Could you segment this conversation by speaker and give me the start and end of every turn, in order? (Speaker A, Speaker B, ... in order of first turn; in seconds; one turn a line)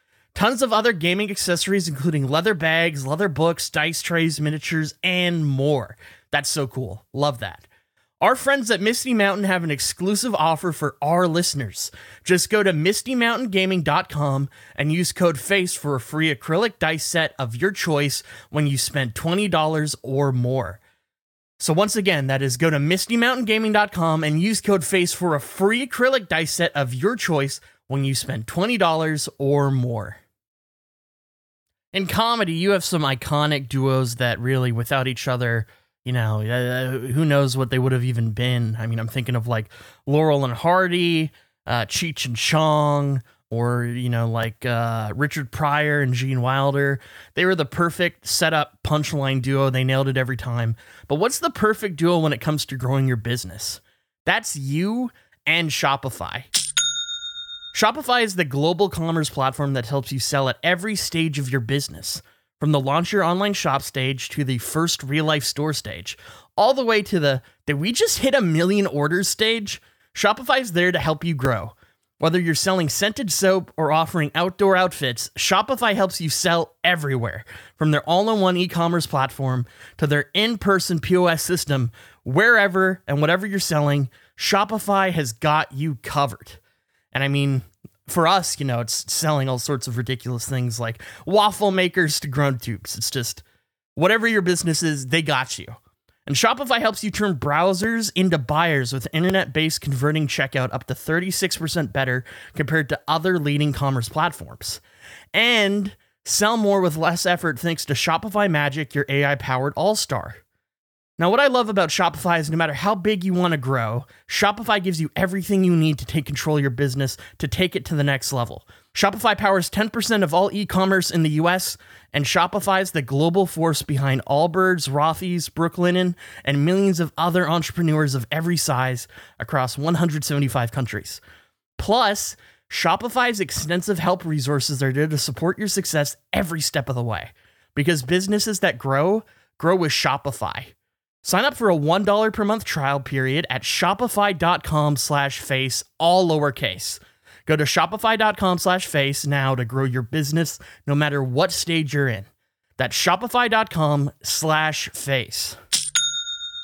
Speaker A: 0.3-7.7
Speaker A: 8.2-20.8
Speaker A: 21.6-30.2
Speaker A: 31.9-56.5
Speaker A: 57.7-86.6
Speaker A: 87.1-93.4
Speaker A: 94.0-104.8
Speaker A: 105.3-110.4
Speaker A: 111.2-131.2
Speaker A: 131.8-140.7
Speaker A: 141.2-152.2
Speaker A: 152.8-155.6